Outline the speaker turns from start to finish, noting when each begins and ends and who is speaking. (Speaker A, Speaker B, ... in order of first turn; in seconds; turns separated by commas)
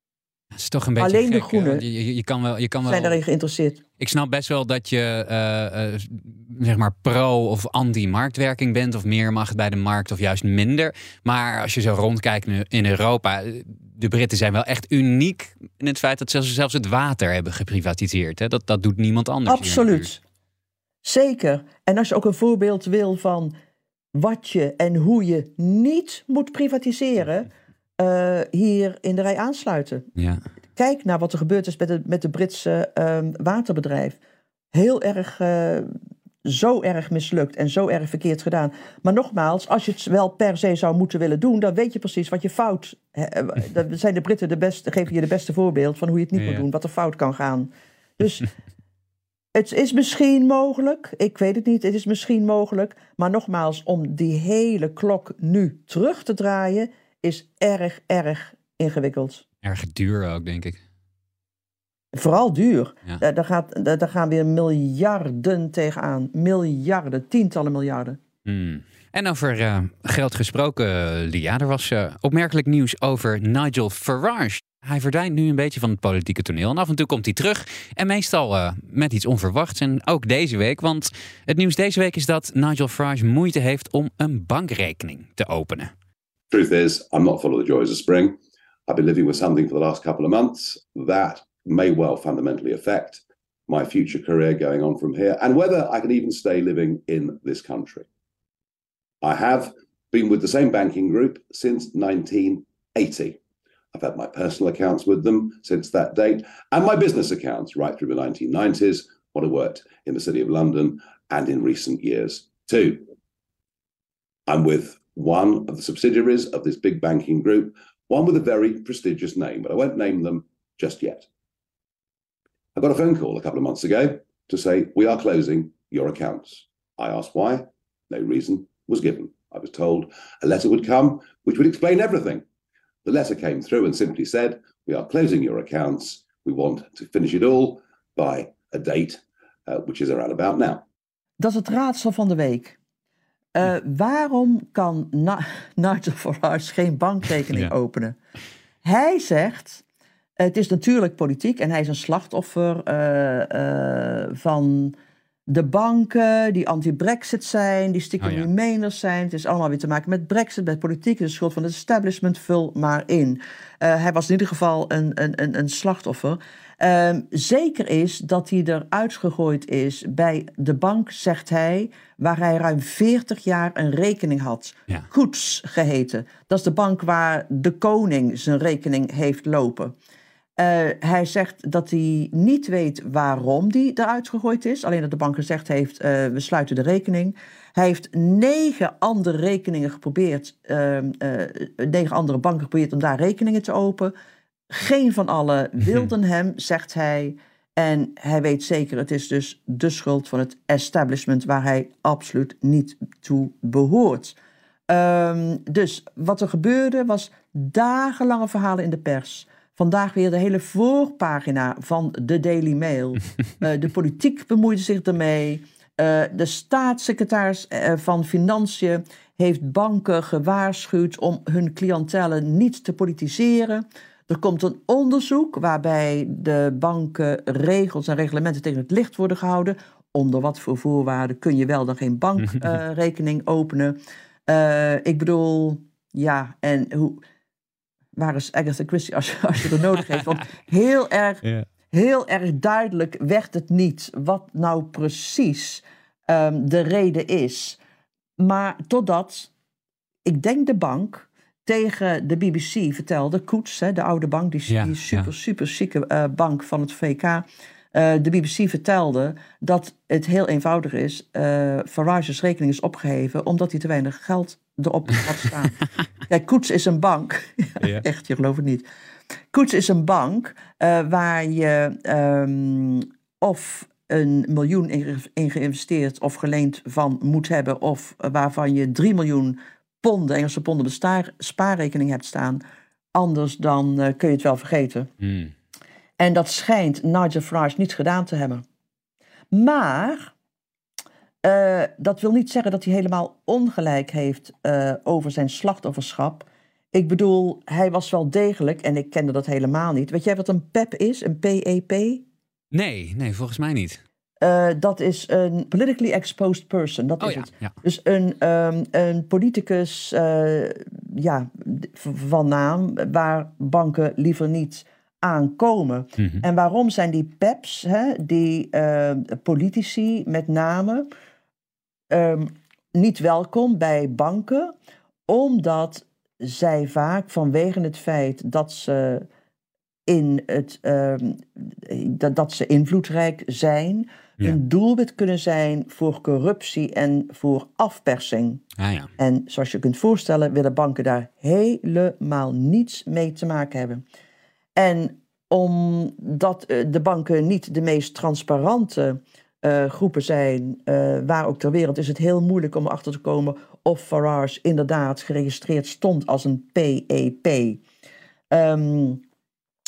Speaker A: 0.5-3.2, Speaker B: 1.0-1.8, Speaker B: 2.9-3.8, Speaker A: 4.0-20.1, Speaker B: 19.5-20.2, Speaker B: 21.0-23.5, Speaker B: 24.1-30.1, Speaker A: 30.2-30.4, Speaker B: 30.8-34.2, Speaker B: 34.7-35.9, Speaker B: 36.5-48.5, Speaker A: 46.4-46.6, Speaker B: 49.5-59.4, Speaker A: 59.6-60.8, Speaker B: 62.1-68.2, Speaker A: 68.5-85.9, Speaker C: 86.5-98.1, Speaker C: 99.2-103.4, Speaker C: 103.9-113.1, Speaker C: 114.5-121.3, Speaker C: 122.8-132.4, Speaker C: 133.1-140.8, Speaker B: 141.4-142.8, Speaker B: 143.6-148.2, Speaker B: 148.8-149.8, Speaker B: 150.4-154.9, Speaker B: 155.5-179.9, Speaker A: 158.2-158.5, Speaker B: 180.6-194.1, Speaker B: 194.7-204.3, Speaker B: 204.9-237.2, Speaker A: 232.4-232.8, Speaker B: 238.2-247.8, Speaker B: 248.4-249.5, Speaker B: 250.3-265.8, Speaker A: 254.7-255.3, Speaker B: 266.3-268.9, Speaker B: 269.5-282.6, Speaker B: 283.1-285.1, Speaker A: 285.2-285.5, Speaker B: 286.2-288.6, Speaker B: 289.5-290.3, Speaker B: 291.4-302.2, Speaker A: 302.7-304.0, Speaker B: 304.4-321.1, Speaker A: 307.2-307.7, Speaker A: 316.2-316.4, Speaker B: 322.1-324.7, Speaker B: 325.3-329.3, Speaker B: 330.1-338.6, Speaker A: 338.8-339.1, Speaker B: 339.2-344.0, Speaker B: 344.8-357.8, Speaker B: 358.5-359.2